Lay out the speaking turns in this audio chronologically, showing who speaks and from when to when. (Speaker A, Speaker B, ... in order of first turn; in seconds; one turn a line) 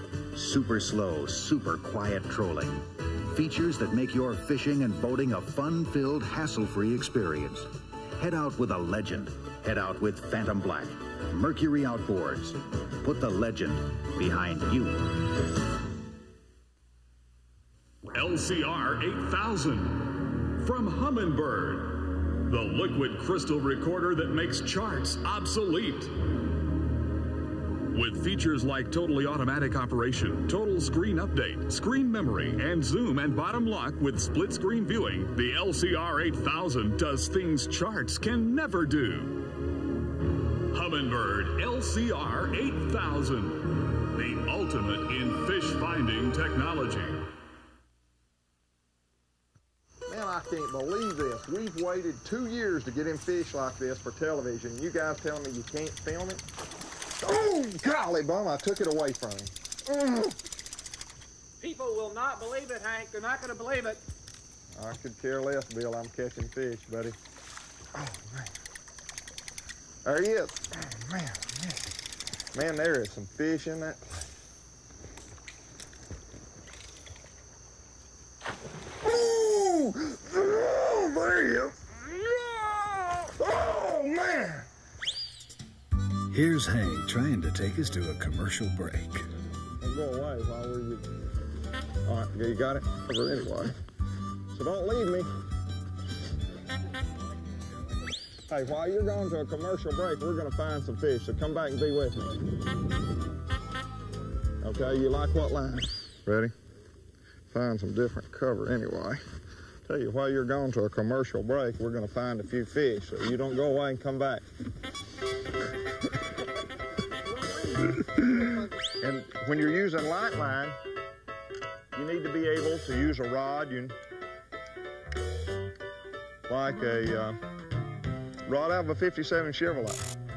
Speaker A: 0.3-15.4
Speaker B: 18.1-26.1
Speaker B: 27.9-39.5
Speaker B: 40.7-47.2
Speaker C: 50.1-56.4
Speaker C: 57.2-60.3
Speaker D: 61.6-64.0
Speaker C: 64.8-67.2
Speaker C: 67.9-68.5
Speaker C: 70.0-71.9
Speaker C: 72.5-74.2
Speaker C: 79.0-84.7
Speaker E: 86.3-89.3
Speaker C: 89.8-91.1
Speaker C: 92.0-93.8
Speaker C: 94.5-95.3
Speaker C: 98.5-102.4
Speaker C: 104.6-106.5
Speaker C: 107.5-109.2
Speaker C: 109.8-114.4
Speaker C: 119.0-120.8
Speaker C: 121.9-123.9
Speaker C: 126.5-127.4
Speaker C: 128.4-130.0